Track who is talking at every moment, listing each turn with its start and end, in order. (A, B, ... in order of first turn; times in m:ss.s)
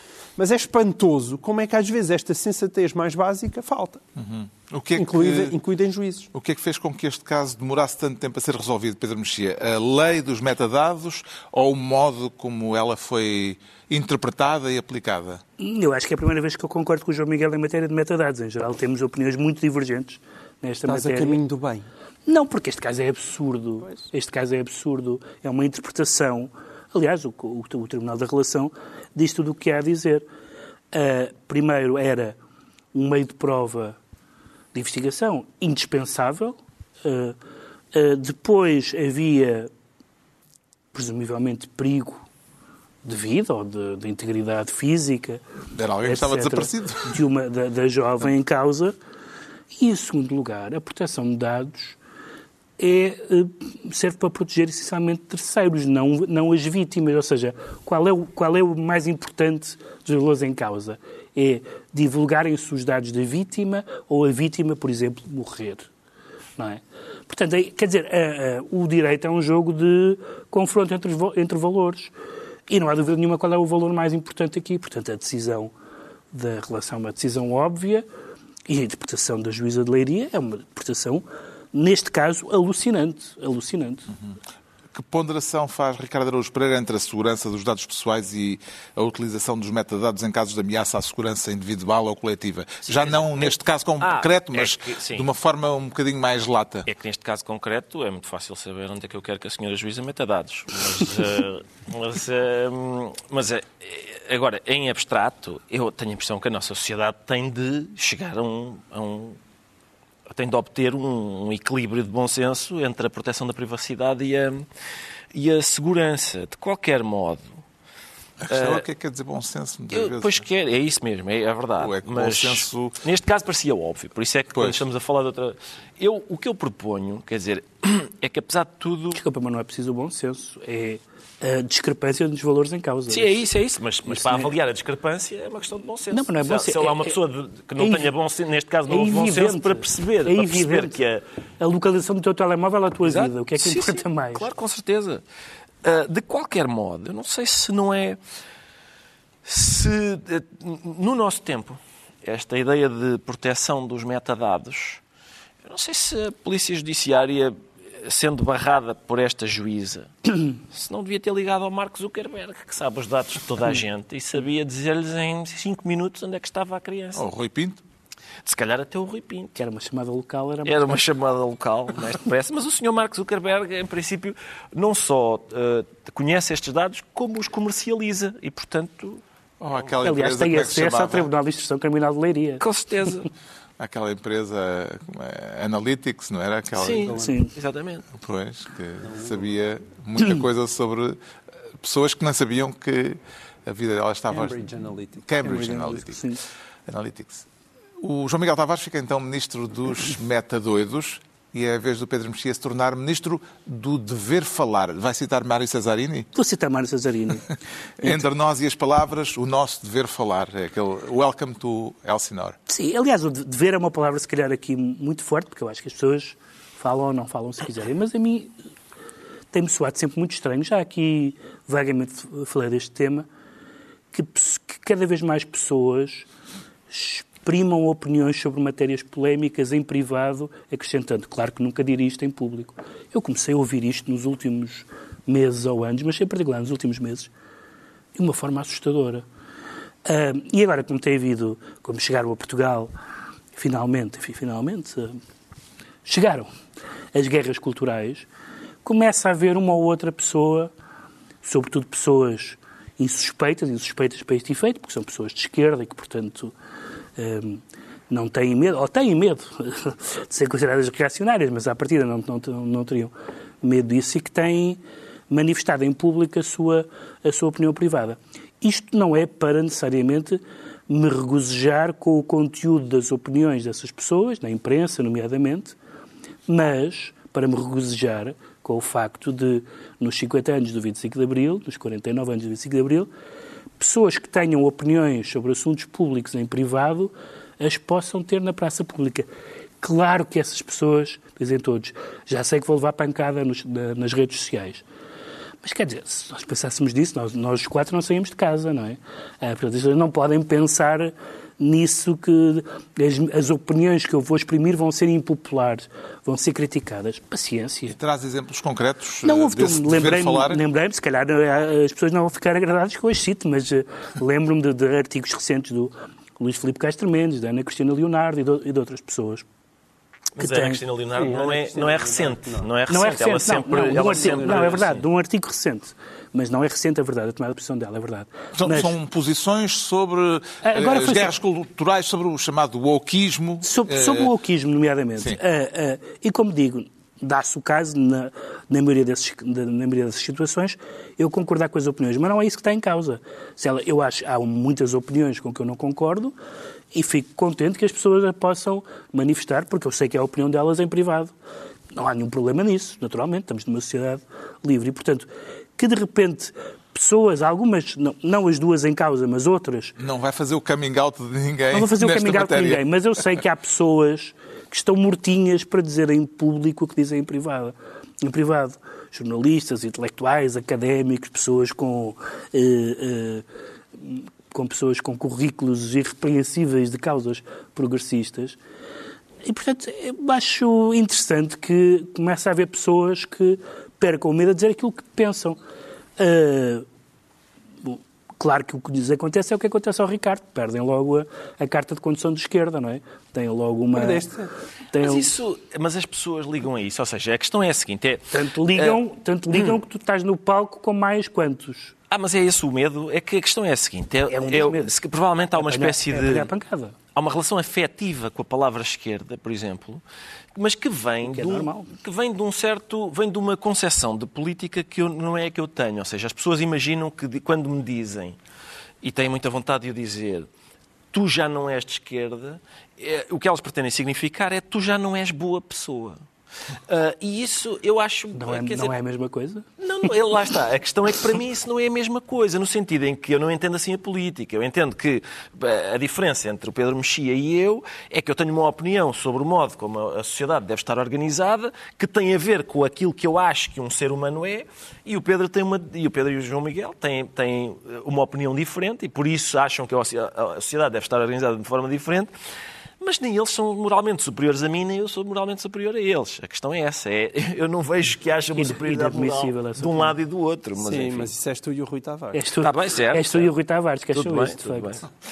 0:00.4-0:04.0 A
0:04.2-0:05.5 B
0:05.0-0:06.3 A
0:06.3-0:15.4 B
0:15.6-0:21.4 C
0:20.9-0:21.9 A
0:22.3-0:30.2 C
0:30.9-0:32.4 C
0:32.9-0:34.0 C
0:34.7-0:37.4 C
0:37.9-0:39.7 C
0:40.9-0:42.2 C
0:43.0-0:45.4 C
0:45.8-0:47.2 B
0:46.1-0:48.9 C
0:49.8-0:52.0 C
0:52.8-1:05.9 C
1:06.6-1:12.1 C
1:12.7-1:15.7 C
1:16.3-1:18.1 C
1:18.7-1:24.1 C
1:24.9-1:36.9 B
1:32.9-1:35.3 D
1:36.9-1:49.4 D
1:50.3-1:54.7 D
1:55.3-1:57.6 D
1:58.4-2:00.5 B
1:58.5-1:58.8 D
1:59.9-2:09.2 D
2:01.8-2:03.0 B
2:04.6-2:04.8 B
2:09.1-2:13.4 C
2:13.1-2:21.2 D
2:14.1-2:14.5 C
2:16.1-2:17.2 C
2:17.8-2:18.1 C
2:18.9-2:21.0 C
2:21.6-2:24.5 C
2:23.0-2:25.2 D
2:25.8-2:28.2 D
2:29.4-2:35.0 D
2:35.6-2:47.2 D
2:47.2-2:47.8 B
2:48.4-2:49.6 D
2:49.6-2:51.0 C
2:50.6-2:59.2 D
2:59.6-3:01.3 B
3:00.0-3:02.6 C
3:02.6-3:03.3 D
3:03.8-3:07.1 B
3:06.8-3:08.1 D
3:06.9-3:07.4 A
3:07.2-3:07.5 C
3:08.2-3:11.2 B
3:11.8-3:14.6 B
3:14.3-3:15.9 A
3:15.2-3:16.2 B
3:15.4-3:16.4 C
3:16.9-3:17.5 B
3:18.0-3:26.3 B
3:26.4-3:28.2 C
3:28.0-3:32.6 B
3:32.7-3:38.5 C
3:39.5-3:43.3 C
3:44.1-3:46.3 C
3:46.9-3:57.3 C
3:58.2-3:59.2 C
4:00.0-4:02.9 C
4:03.6-4:05.2 C
4:06.0-4:06.5 C
4:07.1-4:08.3 C
4:08.8-4:10.7 C
4:11.4-4:16.5 C
4:17.2-4:35.8 C
4:36.5-4:43.1 C
4:43.8-4:49.3 C
4:49.8-4:54.8 C
4:55.6-5:08.0 C
5:07.9-5:10.6 B
5:09.2-5:19.4 C
5:20.4-5:25.0 D
5:20.4-5:20.8 C
5:21.2-5:22.7 A
5:22.9-5:28.9 C
5:23.9-5:24.8 A
5:28.6-5:34.3 B
5:30.6-5:31.3 C
5:33.6-5:46.4 C
5:46.9-5:51.3 C
5:51.9-6:00.0 C
6:00.0-6:03.3 B
6:01.7-6:13.4 C
6:14.0-6:18.6 C
6:19.5-6:25.6 C
6:26.2-6:26.8 C
6:27.8-6:34.3 C
6:33.9-6:34.5 A
6:34.9-6:35.3 C
6:35.0-6:39.0 D
6:38.3-6:41.9 C
6:42.1-6:46.5 D
6:44.3-6:44.9 C
6:45.6-6:47.0 C
6:47.2-6:50.0 D
6:50.6-6:58.4 D
6:51.3-6:51.9 C
6:59.0-7:00.5 D
7:01.1-7:06.2 D
7:06.9-7:08.9 D
7:08.4-7:09.7 C
7:09.8-7:32.3 D
7:33.0-7:41.3 D
7:38.6-7:40.2 C
7:40.8-7:42.5 A
7:42.3-7:45.0 C
7:42.6-7:43.5 D
7:44.1-7:45.0 D